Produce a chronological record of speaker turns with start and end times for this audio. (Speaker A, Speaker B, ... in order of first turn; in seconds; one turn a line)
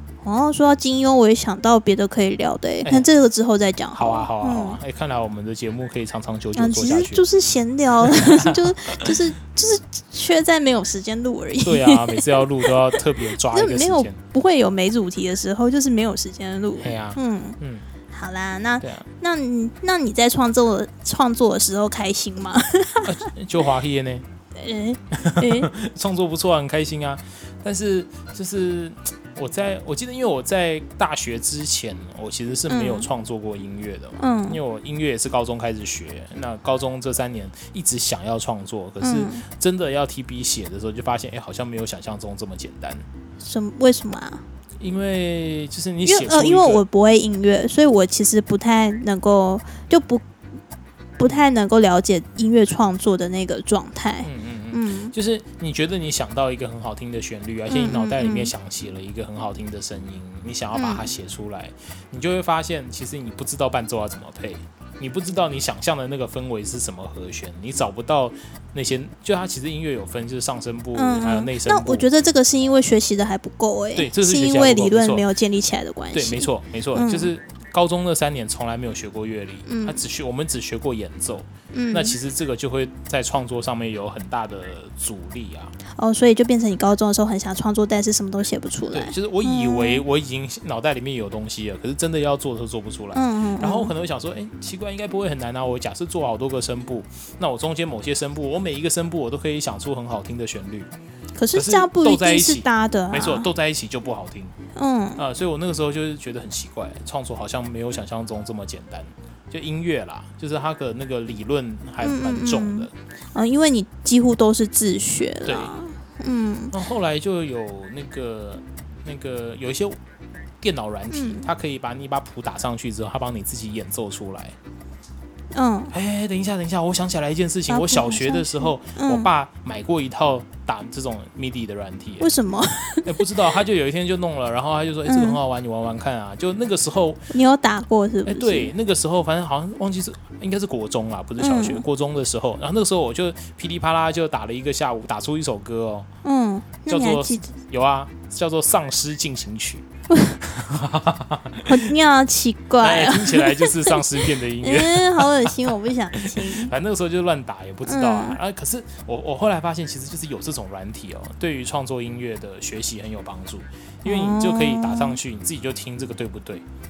Speaker A: 0.2-4.8
Speaker B: 3.9-7.2
Speaker A: 6.5-17.6
Speaker B: 8.0-9.2
Speaker B: 11.6-14.2
Speaker B: 16.8-17.9
Speaker A: 18.1-23.3
Speaker B: 23.0-24.2
Speaker A: 24.6-25.7
Speaker B: 25.1-43.0
Speaker A: 32.7-33.1
Speaker A: 34.2-34.6
Speaker A: 39.0-39.4
Speaker A: 43.4-44.4
Speaker B: 44.8-46.8
Speaker A: 46.0-50.2
Speaker A: 51.2-55.1
Speaker B: 54.2-72.1
Speaker A: 57.7-58.5
Speaker A: 60.7-61.1
Speaker A: 70.9-77.3
Speaker B: 73.9-75.2
Speaker B: 76.1-85.7
Speaker A: 79.7-80.0
Speaker A: 81.7-82.2
Speaker A: 86.0-90.0
Speaker B: 88.9-100.9
Speaker A: 93.1-93.9
Speaker A: 101.4-103.5
Speaker B: 101.5-104.5
Speaker A: 104.8-105.2
Speaker B: 105.2-112.9
Speaker A: 112.0-116.7
Speaker B: 115.5-115.7
Speaker B: 116.7-120.0
Speaker B: 120.6-124.5
Speaker A: 121.1-121.5
Speaker A: 125.5-125.9
Speaker B: 125.9-132.3
Speaker A: 127.7-129.3
Speaker A: 132.2-133.2
Speaker B: 133.1-137.2
Speaker A: 135.1-135.4
Speaker A: 137.3-138.7
Speaker B: 138.2-146.1
Speaker A: 141.4-141.8
Speaker A: 146.2-147.5
Speaker B: 146.9-149.9
Speaker A: 150.1-150.4
Speaker B: 150.4-151.9
Speaker A: 151.7-156.7
Speaker B: 152.8-166.6
Speaker A: 157.9-158.4
Speaker A: 164.0-165.2